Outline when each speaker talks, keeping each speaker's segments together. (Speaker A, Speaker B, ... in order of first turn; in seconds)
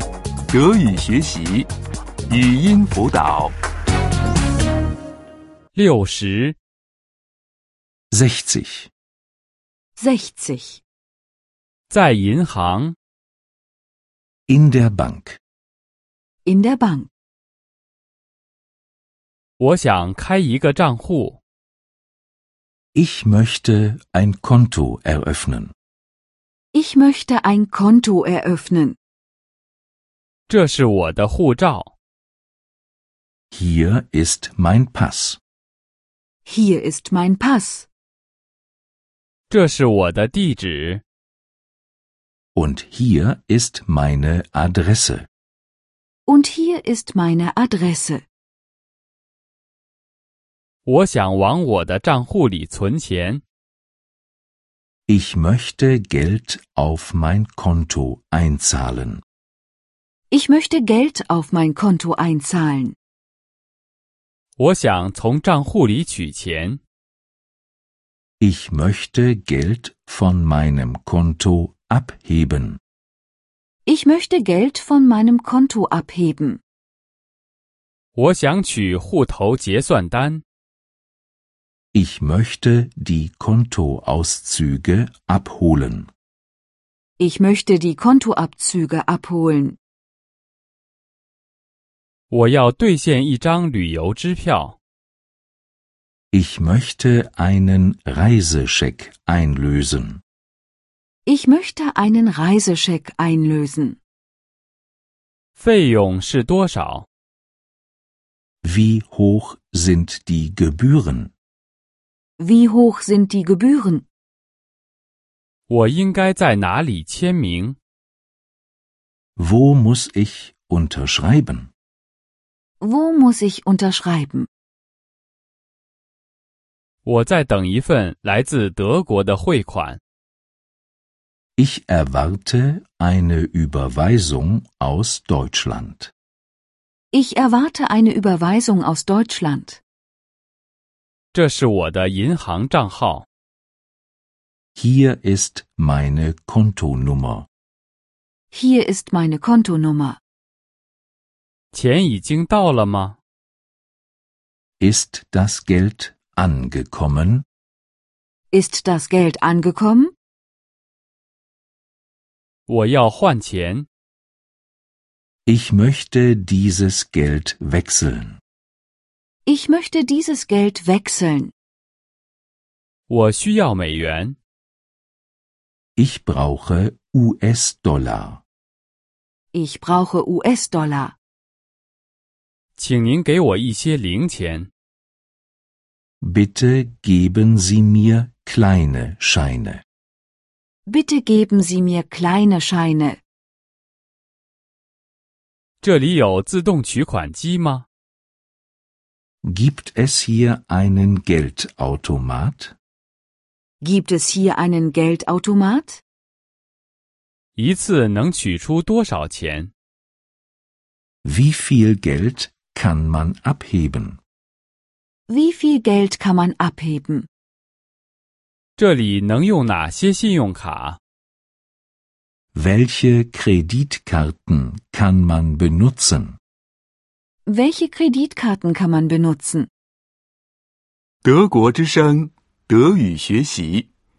Speaker A: 0.5-1.7, 2.3-3.5, 231.2-233.9
Speaker B: 5.7-6.5, 11.9-12.9, 19.6-21.4, 30.5-31.9, 39.5-41.0, 50.9-53.4, 64.6-66.8, 78.2-80.4, 92.3-94.8, 105.6-107.1, 115.7-117.8, 127.0-130.0, 141.3-143.2, 151.7-153.2, 162.7-163.9, 173.1-174.4, 182.8-184.7, 195.8-197.8, 207.6-209.7, 218.8-221.0
Speaker C: 8.1-8.9, 14.5-15.4, 22.9-25.7, 33.5-35.4, 42.5-45.3, 55.1-59.2, 68.4-72.8, 81.9-86.1, 96.3-100.2, 108.6-111.3, 119.3-121.7, 131.6-136.1, 144.8-147.5, 154.8-157.4, 165.4-168.4, 175.9-178.4, 186.2-189.8, 199.4-202.7, 211.2-214.2, 222.5-226.4
Speaker D: 10.0-10.8, 16.4-17.1, 26.7-29.0, 36.5-37.9, 46.2-48.2, 60.3-63.0, 73.8-76.6, 87.2-89.8, 101.2-104.0, 112.4-114.0, 122.8-124.5, 137.1-139.8, 148.5-150.2, 158.5-160.1, 169.4-171.5, 179.5-181.2, 190.9-193.2, 203.8-206.0, 215.3-217.3, 227.4-229.7